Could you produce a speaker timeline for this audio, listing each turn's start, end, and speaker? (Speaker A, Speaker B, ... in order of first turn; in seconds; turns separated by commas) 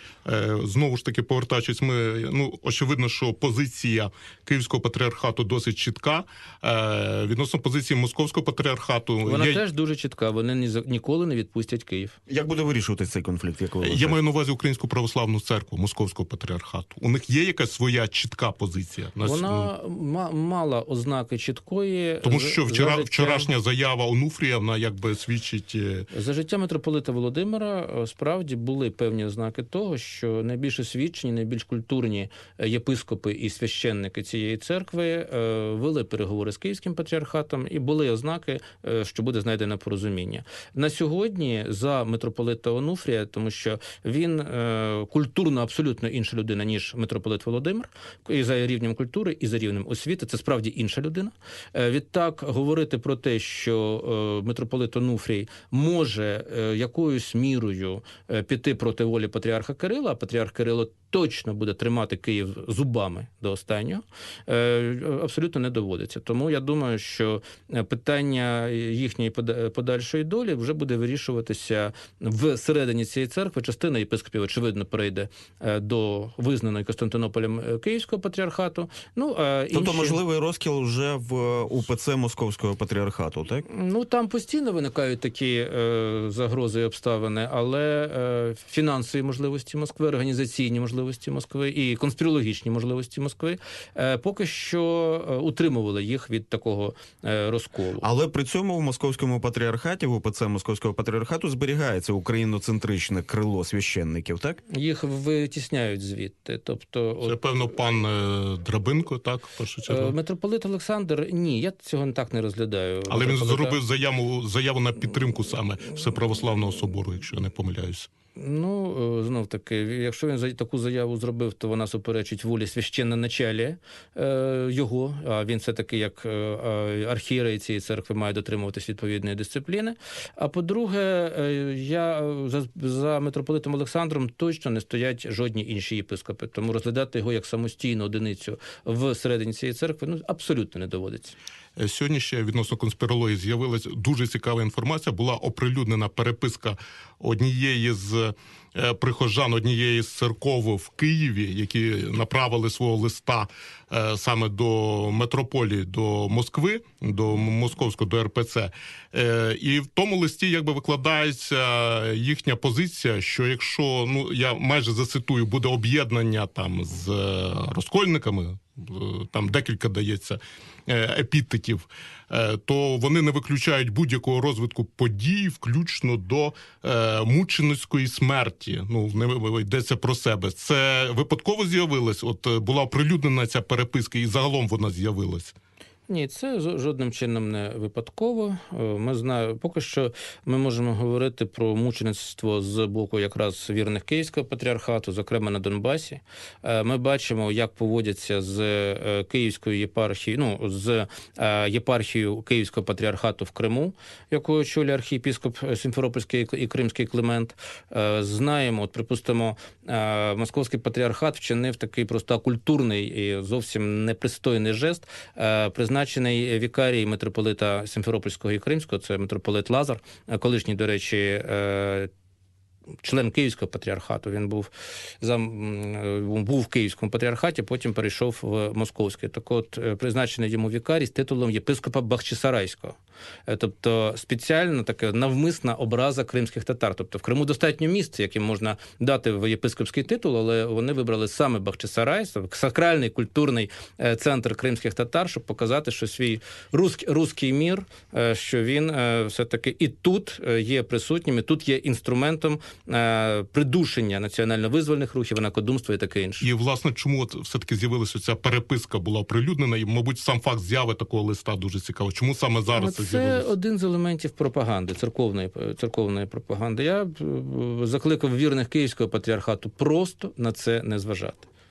Speaker A: 0.2-9.6, Speaker B: 9.2-12.2, Speaker C: 12.3-14.2, Speaker A: 13.8-19.7, Speaker B: 19.2-23.5, Speaker A: 22.2-26.1, Speaker B: 26.1-80.2, Speaker C: 79.7-83.7, Speaker B: 83.7-98.0, Speaker C: 98.0-104.6, Speaker B: 104.7-107.4, Speaker A: 107.2-110.1, Speaker B: 109.9-113.8, Speaker A: 113.1-118.1, Speaker B: 118.3-141.3, Speaker A: 141.8-185.5, Speaker B: 186.1-222.1, Speaker B: 223.0-224.7, Speaker B: 225.2-256.5, Speaker A: 256.4-263.5, Speaker B: 262.7-271.4